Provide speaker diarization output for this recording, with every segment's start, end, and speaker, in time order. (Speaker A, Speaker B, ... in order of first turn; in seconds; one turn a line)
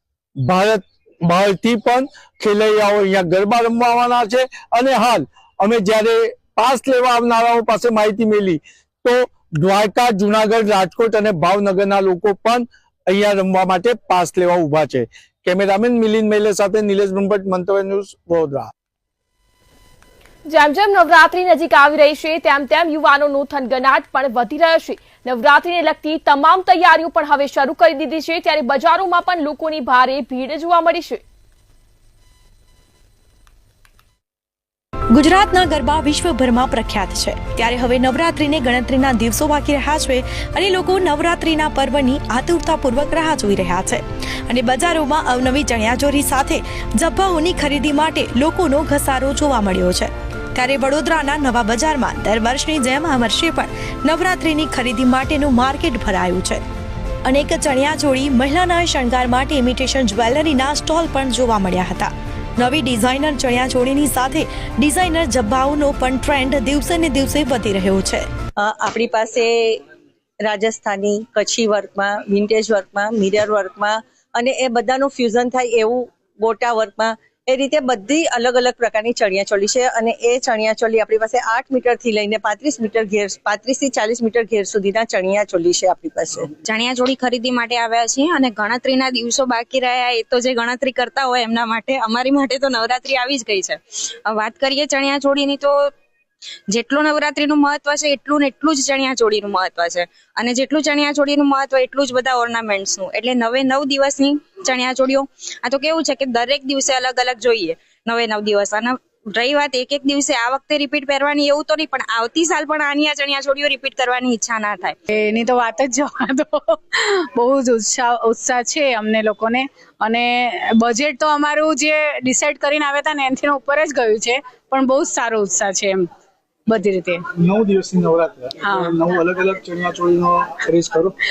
Speaker A: 0.4-18.7
Speaker B: 20.5-31.2
Speaker C: 35.1-56.6
Speaker C: 57.3-68.3
Speaker D: 68.6-69.5
Speaker D: 70.5-86.5
Speaker E: 86.6-95.9
Speaker E: 96.7-115.0
Speaker F: 115.1-126.1
Speaker F: 126.7-127.2
Speaker G: 127.4-131.1
Speaker F: 128.6-129.0